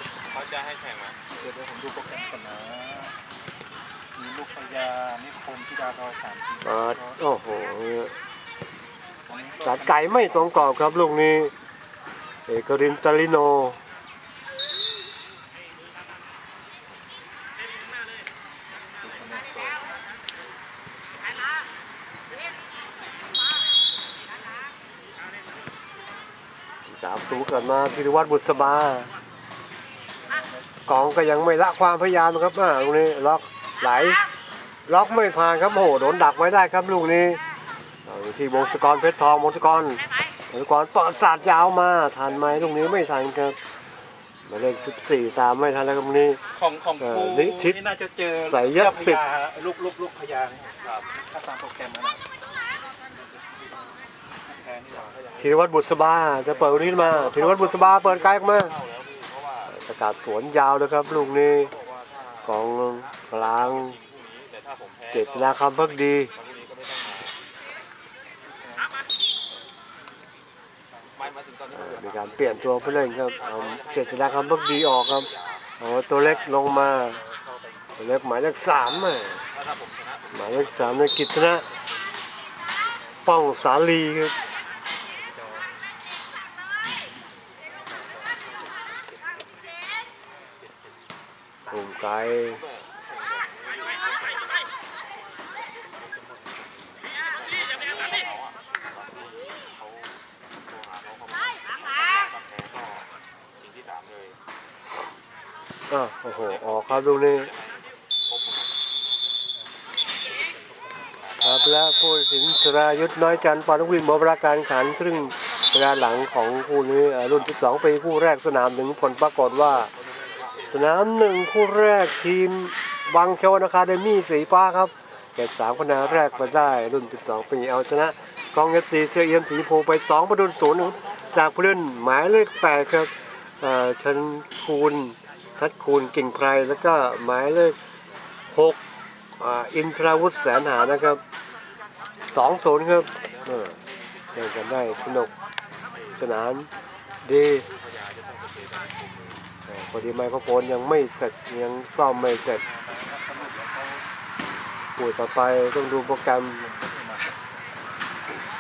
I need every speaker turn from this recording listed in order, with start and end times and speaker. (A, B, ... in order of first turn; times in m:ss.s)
0:00.3-0:01.5 A
0:01.5-0:03.2 B
0:04.2-0:07.2 B
0:06.6-0:08.2 C
0:09.3-0:10.2 B
0:09.6-0:11.5 C
0:12.5-0:13.8 C
0:19.0-0:19.8 B
0:26.9-0:29.1 C
0:27.4-0:28.7 B
0:30.2-0:30.7 B
0:30.9-0:34.2 C
0:34.9-0:37.4 C
0:38.1-0:43.6 C
0:44.4-0:46.4 C
0:46.5-0:52.2 B
0:47.0-0:47.8 C
0:48.4-0:49.2 C
0:53.4-0:55.2 B
0:55.4-0:58.8 C
0:56.9-0:57.7 B
0:58.6-0:59.7 A
0:59.7-1:01.7 C
1:01.9-1:02.3 A
1:02.4-1:04.0 C
1:03.3-1:05.3 A
1:05.1-1:06.3 C
1:06.4-1:07.3 A
1:08.5-1:09.0 B
1:11.0-1:11.3 B
1:11.3-1:12.1 A
1:11.7-1:15.3 C
1:13.3-1:13.8 A
1:15.8-1:17.2 C
1:16.7-1:17.8 B
1:18.0-1:19.5 C
1:19.8-1:20.0 A
1:20.3-1:21.7 C
1:23.2-1:24.4 C
1:25.2-1:25.7 B
1:31.7-1:32.6 C
1:33.4-1:33.9 A
1:37.7-1:38.5 A
1:39.5-1:40.0 A
1:40.7-1:43.0 A
1:43.6-1:44.3 A
1:45.9-1:47.5 C
1:50.3-1:51.4 B
1:51.4-1:59.9 C
2:00.7-2:17.8 C
2:18.5-2:18.8 C
2:19.4-2:21.2 C
2:22.2-2:23.8 C
2:24.3-2:25.3 C
2:26.2-2:26.7 C
2:27.2-2:27.7 C
2:27.9-2:29.3 A
2:29.7-2:32.6 C
2:32.6-2:34.0 B
2:35.0-2:36.6 C
2:36.6-2:37.3 B